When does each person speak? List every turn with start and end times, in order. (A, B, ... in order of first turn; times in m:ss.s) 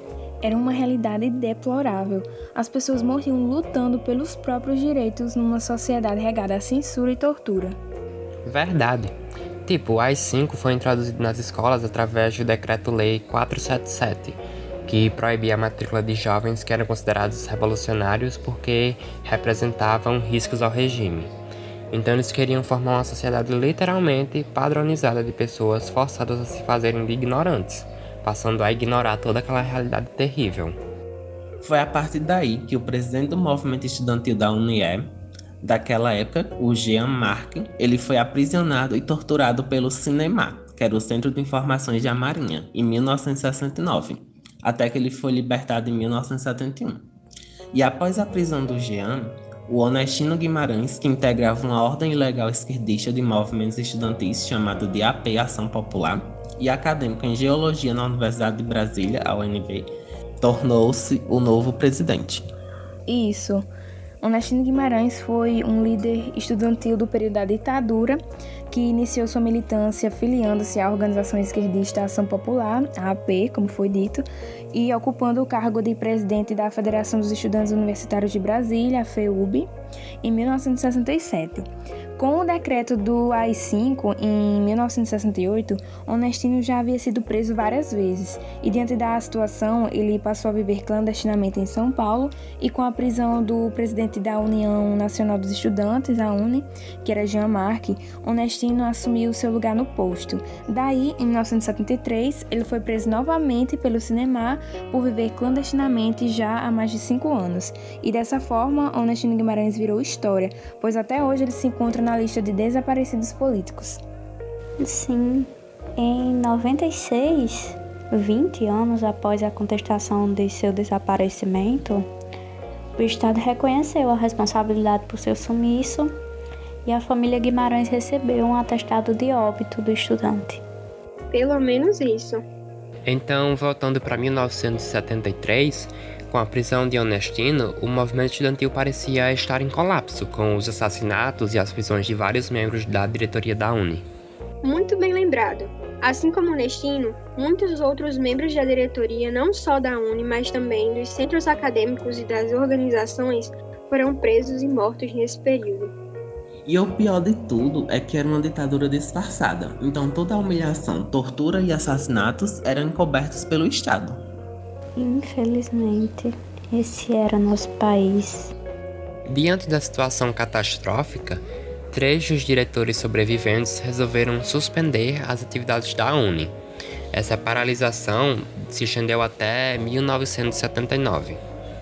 0:00.4-0:07.8 A
0:08.5-0:09.1 B
0:09.7-0:21.3 B
0:21.9-0:30.8 B
0:31.6-0:35.1 C
0:35.6-0:47.1 C
0:47.7-1:02.5 C
1:03.1-1:03.7 A
1:04.2-1:08.2 A
1:08.7-1:19.7 A
1:20.2-1:54.0 A
1:54.8-2:02.1 D
2:03.0-2:06.1 D
2:06.9-2:10.6 D
2:11.3-2:12.4 E
2:13.1-2:24.0 B
2:24.6-2:36.0 E
2:36.7-2:44.2 C
2:45.0-2:48.5 D
2:49.3-2:56.5 B
2:57.1-3:01.4 B